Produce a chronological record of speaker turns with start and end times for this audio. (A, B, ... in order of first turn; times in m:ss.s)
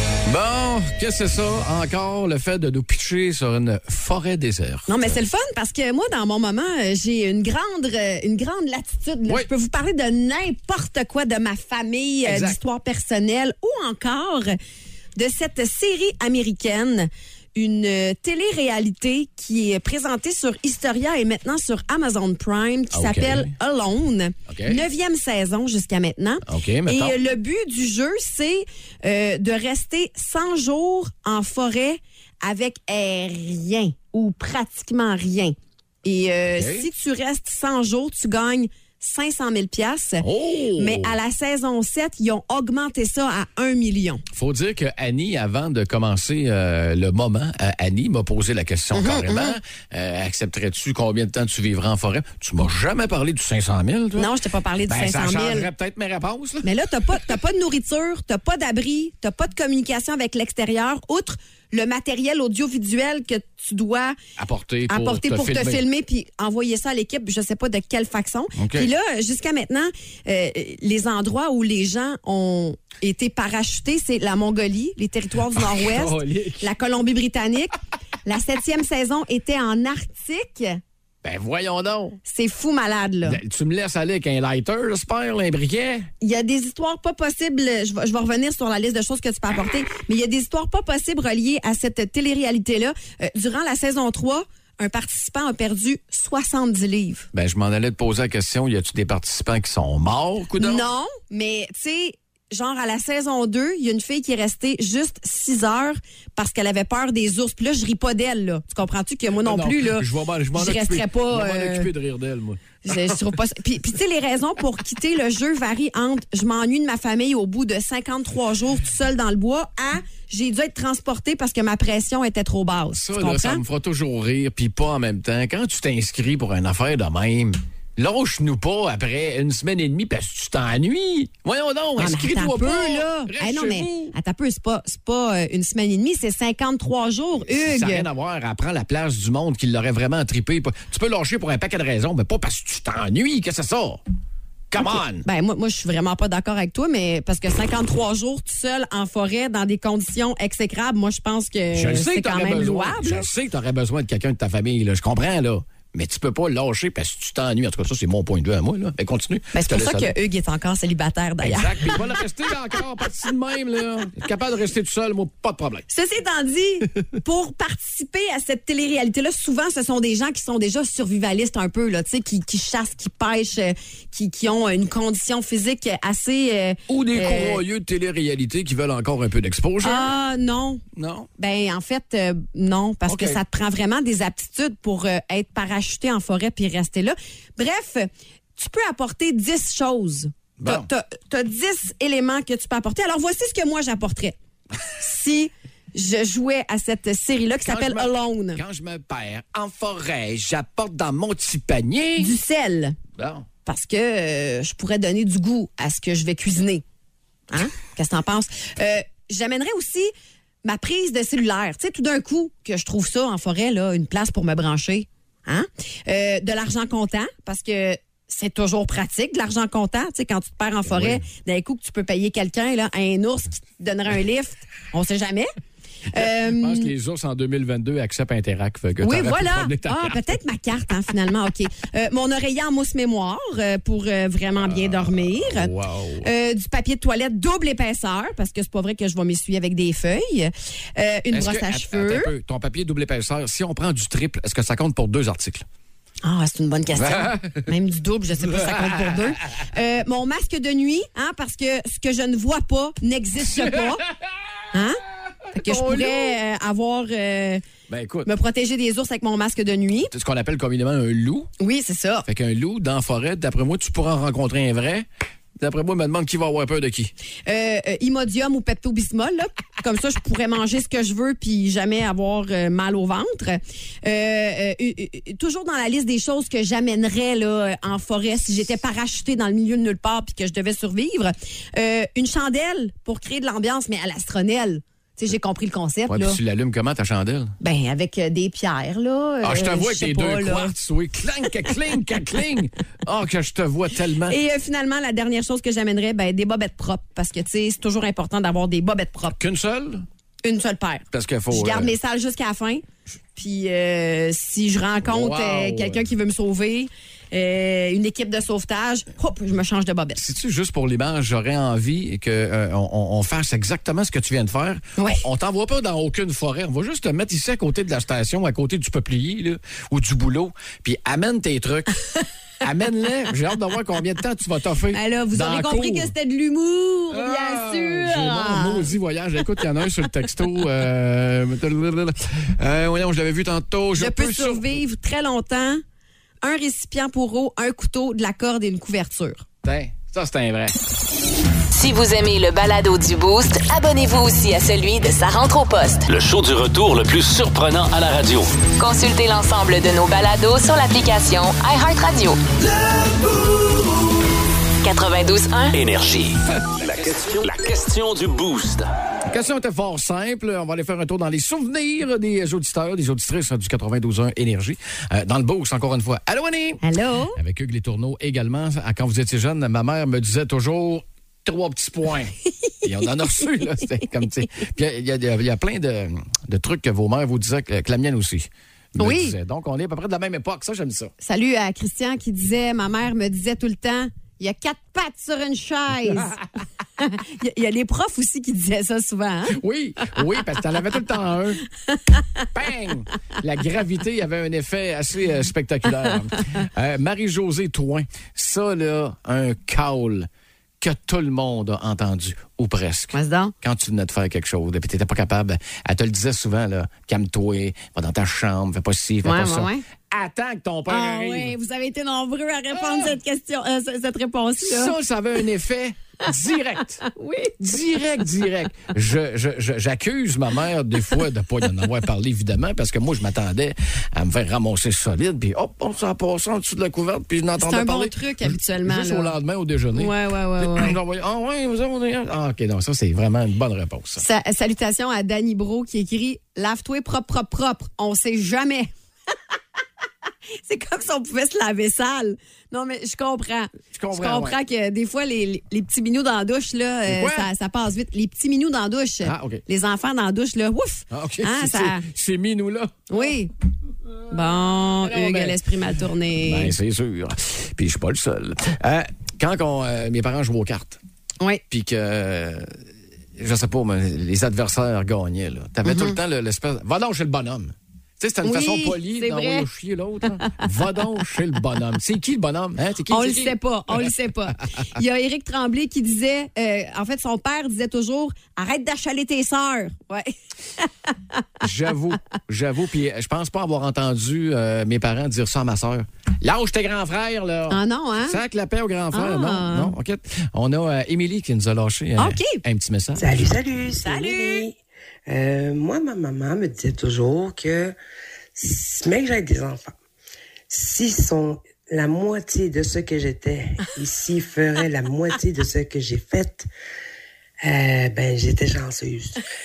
0:00.2-0:05.2 A
0:04.9-0:14.6 B
0:12.2-0:12.6 A
0:15.2-0:44.2 B
0:22.9-0:23.5 A
0:24.5-0:24.8 A
0:26.4-0:27.2 A
0:36.5-0:36.9 A
0:40.2-0:41.2 A
0:44.3-0:54.3 A
0:48.9-0:49.6 B
0:54.2-0:55.7 B
0:54.9-0:57.4 A
0:56.6-1:04.2 B
1:04.4-1:05.8 A
1:04.9-1:20.8 B
1:08.6-1:08.9 A
1:15.6-1:16.7 A
1:21.2-1:22.2 A
1:22.2-1:23.4 B
1:23.2-1:26.1 A
1:26.2-1:37.3 B
1:37.3-1:40.9 A
1:40.6-1:51.9 B
1:49.4-1:53.1 A
1:52.8-2:03.6 B
2:02.9-2:14.1 A
2:12.0-2:18.1 B
2:17.5-2:24.0 A
2:24.7-2:25.3 A
2:25.2-2:33.3 B
2:31.7-2:40.1 A
2:39.5-2:42.0 B
2:41.4-2:45.8 A
2:45.9-2:57.6 B
2:56.9-3:00.1 A
2:59.8-3:00.8 B
3:01.0-3:01.3 A
3:01.4-3:14.4 B
3:03.1-3:03.4 A
3:10.6-3:10.9 A
3:15.0-3:18.6 B
3:17.7-3:22.3 A
3:22.2-3:23.0 B
3:23.2-3:23.5 A
3:23.6-3:26.8 B
3:27.5-3:30.1 B
3:30.6-3:45.5 B
3:40.9-3:41.2 A
3:46.1-3:46.9 B
3:46.6-3:50.4 A
3:49.0-4:02.3 B
3:54.6-3:56.3 A
4:01.3-4:05.7 A
4:06.2-4:14.0 B
4:06.9-4:07.7 A
4:08.5-4:09.2 A
4:13.4-4:14.3 A
4:14.7-4:15.0 B
4:15.5-4:17.6 B
4:15.5-4:16.4 A
4:17.9-4:18.3 A
4:18.2-4:20.1 B
4:20.1-4:21.5 A
4:21.6-4:22.3 B
4:22.3-4:25.1 A
4:25.6-4:27.1 A
4:27.5-4:46.4 B
4:46.1-4:47.6 A
4:47.6-4:50.7 B
4:49.4-4:54.4 A
4:54.3-4:59.4 B
4:59.4-5:00.1 A
5:00.4-5:02.8 B
5:01.1-5:02.0 A
5:03.4-5:10.2 B
5:05.0-5:06.0 A
5:10.2-5:21.9 A
5:15.0-5:15.2 B
5:22.6-5:26.1 A
5:24.9-5:28.9 B
5:27.1-5:34.7 A
5:34.0-5:35.8 B
5:36.4-5:39.4 B
5:39.6-5:40.8 A
5:41.7-5:46.1 C
5:46.1-5:48.5 D
5:48.8-5:52.4 C
5:54.8-5:55.8 C
5:55.7-5:58.9 D
5:59.3-6:06.8 A
6:06.8-6:07.4 B
6:07.4-6:21.1 A
6:19.0-6:19.4 B
6:21.2-6:26.3 B
6:27.0-6:29.6 B
6:29.5-6:31.6 A
6:32.5-6:40.3 A
6:40.8-6:51.6 A
6:43.1-6:43.5 B
6:49.2-6:49.8 B
6:50.9-6:55.0 B
6:52.8-6:53.1 A
6:54.6-6:57.1 A
6:57.0-6:57.8 B
6:57.6-7:14.2 A
7:07.6-7:09.4 B
7:09.9-7:11.0 B
7:14.2-7:18.9 B
7:20.6-7:32.0 B
7:23.9-7:24.6 A
7:27.1-7:27.5 A
7:29.2-7:29.6 A
7:31.1-7:33.1 A
7:33.1-7:33.5 B
7:34.3-7:36.7 B
7:35.0-7:35.6 A
7:36.4-7:41.0 A
7:41.7-7:42.8 A
7:43.4-7:54.1 A
7:45.8-7:46.2 B
7:48.4-7:49.7 B
7:50.4-7:50.7 B
7:53.1-8:01.1 B
8:01.6-8:13.5 A
8:07.7-8:08.4 B
8:09.1-8:09.9 B
8:12.2-8:12.6 B
8:13.2-8:14.8 E
8:14.0-8:14.7 B
8:15.3-8:18.0 E
8:18.6-8:20.0 E
8:20.7-8:26.7 E
8:27.6-8:29.4 E